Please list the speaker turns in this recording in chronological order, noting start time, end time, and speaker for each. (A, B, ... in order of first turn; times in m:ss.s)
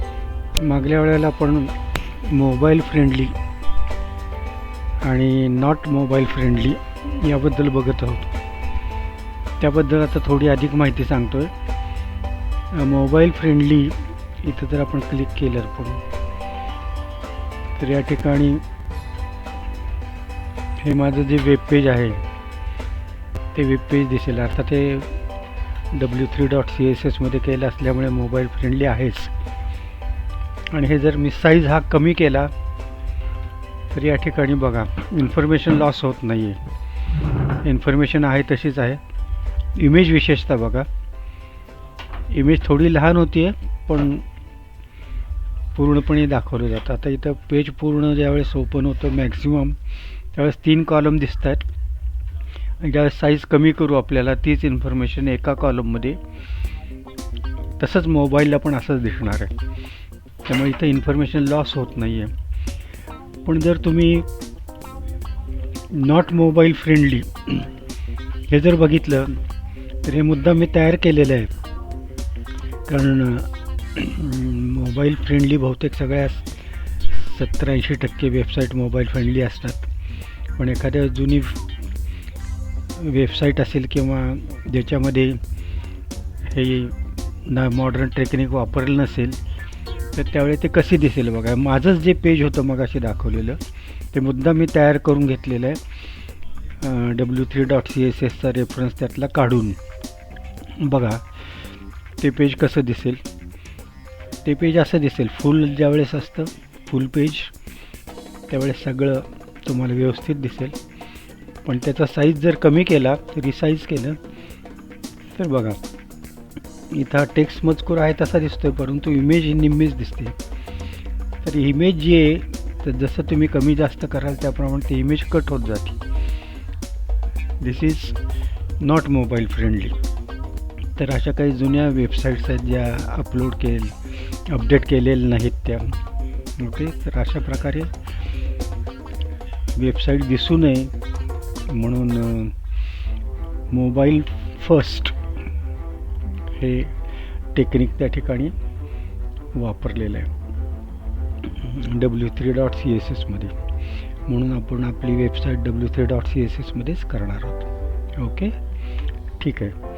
0:00.6-0:03.4 A
0:05.0-0:08.3 A
0:09.6-0:11.5 A
0:12.7-0:16.0 A
0:17.8-0:18.6 A
0:20.8-0:22.2 A
0:23.5-0:25.2 A
0:25.9-0:29.3 A
0:30.7-0:32.5 A
0:33.9-0:36.6 A
0:37.6-0:39.0 A
0:39.8-0:40.9 A
0:42.3-0:44.2 A
0:45.7-0:49.8 A
0:50.3-0:51.6 A
0:52.8-0:56.2 A
0:57.8-0:59.6 A
1:00.4-1:02.3 A
1:03.4-1:04.3 A
1:05.9-1:07.7 A
1:08.5-1:09.4 A
1:10.0-1:11.5 A
1:12.9-1:16.5 A
1:17.1-1:19.9 A
1:20.6-1:21.6 A
1:22.9-1:25.4 A
1:26.4-1:29.4 A
1:30.1-1:33.6 A
1:34.1-1:35.8 A
1:36.8-1:39.8 A
1:40.7-1:41.2 A
1:42.2-1:43.2 A
1:44.4-1:47.5 A
1:48.5-1:50.8 A
1:51.6-1:54.2 A
1:55.3-1:55.8 A
1:56.9-2:00.4 A
2:01.4-2:06.0 A
2:07.6-2:08.2 A
2:08.8-2:10.0 A
2:11.0-2:13.9 A
2:14.5-2:16.0 A
2:16.6-2:17.9 A
2:19.7-2:20.9 A
2:21.6-2:22.6 A
2:23.7-2:25.2 A
2:26.3-2:27.0 A
2:27.5-2:28.5 A
2:29.5-2:30.3 A
2:31.4-2:33.5 A
2:34.2-2:38.6 A
2:39.4-2:39.8 A